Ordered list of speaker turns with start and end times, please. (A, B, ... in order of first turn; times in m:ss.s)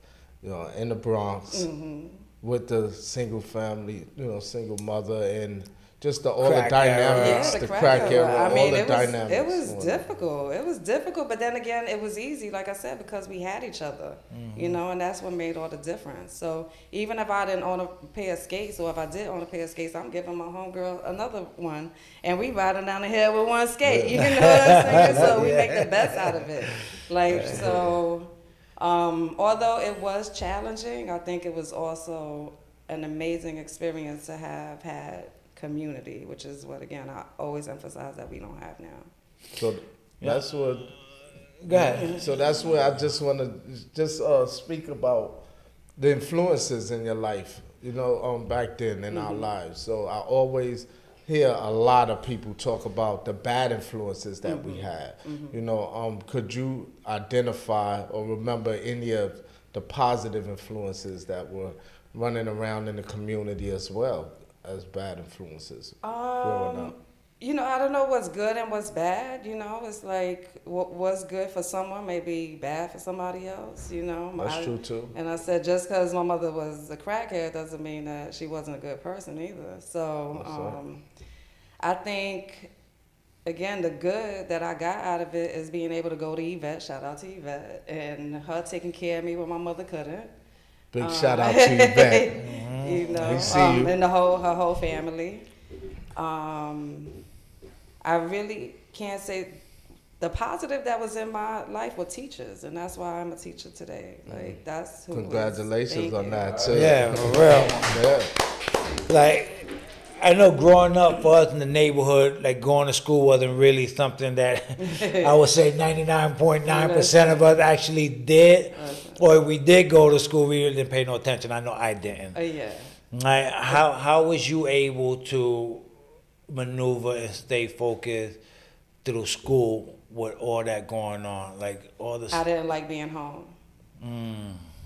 0:00.4-0:01.7 A
0:01.5-0:02.2 B
0:02.4-0:10.0 A
0:06.4-0:08.5 C
0:07.1-0:39.1 B
0:14.3-0:14.8 C
0:23.8-0:24.2 A
0:24.2-0:26.4 C
0:24.9-0:25.6 A
0:27.3-0:27.9 A
0:27.3-0:27.8 C
0:39.6-0:40.9 A
0:41.6-0:42.2 C
0:41.7-0:45.4 A
0:41.9-0:42.3 B
0:46.0-1:06.9 A
0:49.1-0:49.5 B
0:54.4-0:55.6 B
1:06.0-1:21.0 B
1:14.4-1:15.1 A
1:20.4-1:20.8 A
1:21.8-1:22.7 B
1:23.4-1:30.3 B
1:30.9-1:32.4 A
1:31.0-1:35.4 B
1:32.4-1:33.7 C
1:33.2-1:33.9 A
1:36.1-1:37.2 B
1:38.0-1:39.6 B
1:40.2-1:46.7 B
1:44.3-1:44.6 A
1:45.1-1:48.3 A
1:46.7-1:47.9 C
1:49.1-1:49.7 C
1:50.2-2:02.4 C
1:54.8-1:55.4 B
1:56.7-1:57.4 B
1:58.7-1:59.2 B
2:02.4-2:02.9 B
2:03.1-2:05.9 C
2:06.5-2:08.4 C
2:09.0-2:12.4 C
2:12.3-2:13.5 B
2:14.0-2:14.6 C